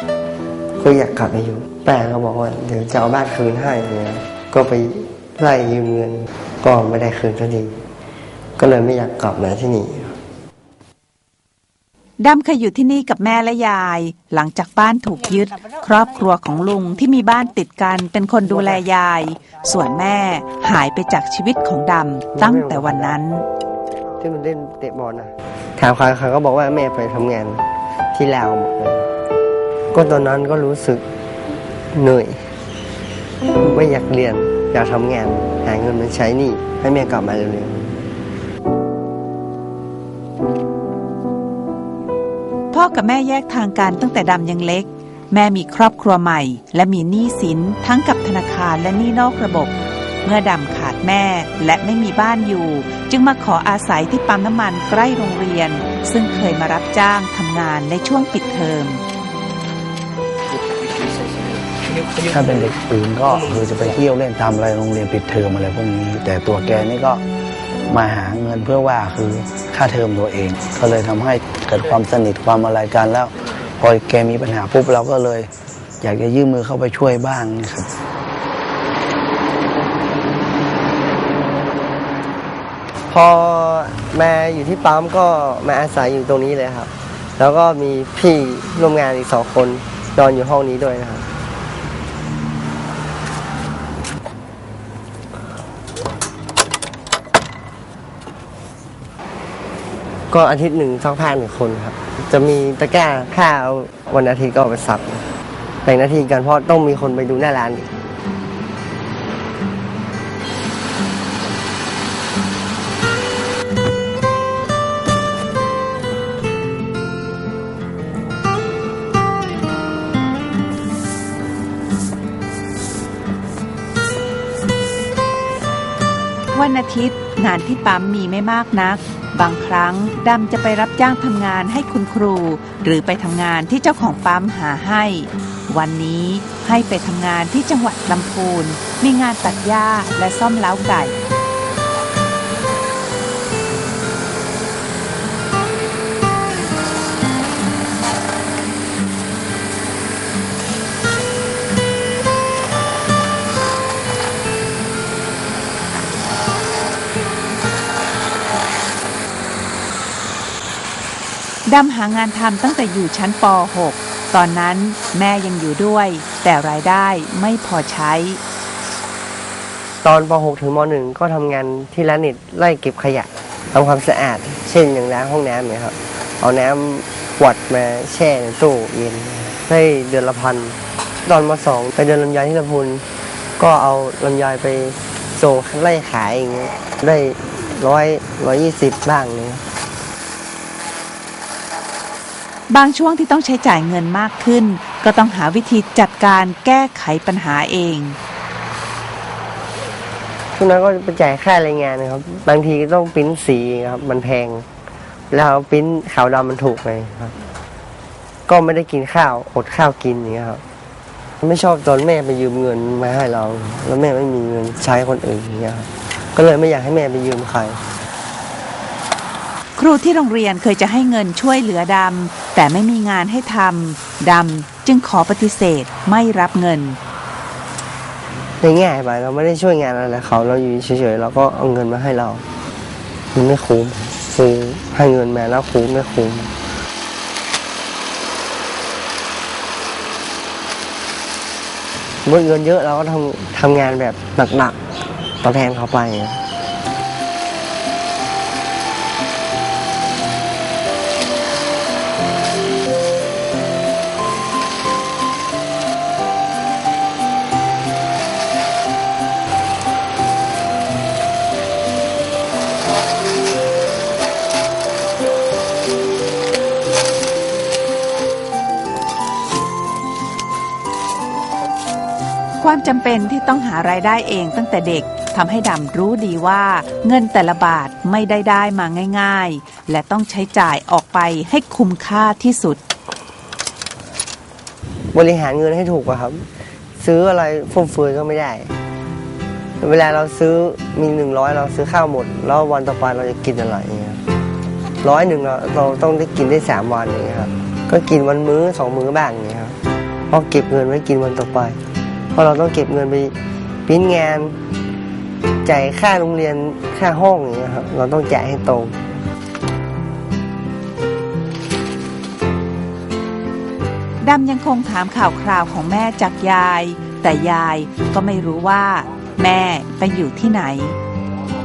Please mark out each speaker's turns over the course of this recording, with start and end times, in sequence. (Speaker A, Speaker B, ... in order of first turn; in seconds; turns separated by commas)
Speaker A: 0.8-7.8, Speaker A: 8.6-10.1, Speaker B: 12.2-23.4, Speaker A: 22.4-23.2, Speaker A: 24.2-27.6, Speaker A: 28.1-29.1, Speaker A: 29.9-31.0, Speaker A: 31.9-32.4, Speaker A: 33.6-38.0, Speaker B: 42.7-49.7, Speaker B: 50.2-59.0, Speaker C: 62.2-67.2, Speaker C: 67.9-75.5, Speaker C: 76.0-77.9, Speaker A: 83.1-91.2, Speaker A: 100.3-105.3, Speaker A: 105.8-107.9, Speaker B: 126.5-141.2, Speaker B: 161.7-168.4, Speaker A: 170.0-183.0, Speaker A: 183.6-189.6, Speaker B: 192.7-198.2, Speaker A: 200.6-204.7, Speaker A: 205.3-207.3, Speaker A: 208.5-210.6, Speaker A: 211.4-217.8, Speaker B: 219.8-227.0, Speaker A: 228.6-232.4, Speaker A: 233.3-236.5, Speaker A: 242.3-244.8, Speaker A: 245.4-246.4, Speaker B: 272.6-282.8, Speaker A: 285.1-286.4, Speaker A: 287.0-288.7, Speaker A: 289.8-294.2, Speaker A: 295.0-299.8, Speaker A: 300.3-301.8, Speaker A: 302.4-303.3, Speaker A: 303.9-304.6, Speaker A: 305.6-309.0, Speaker B: 314.2-321.0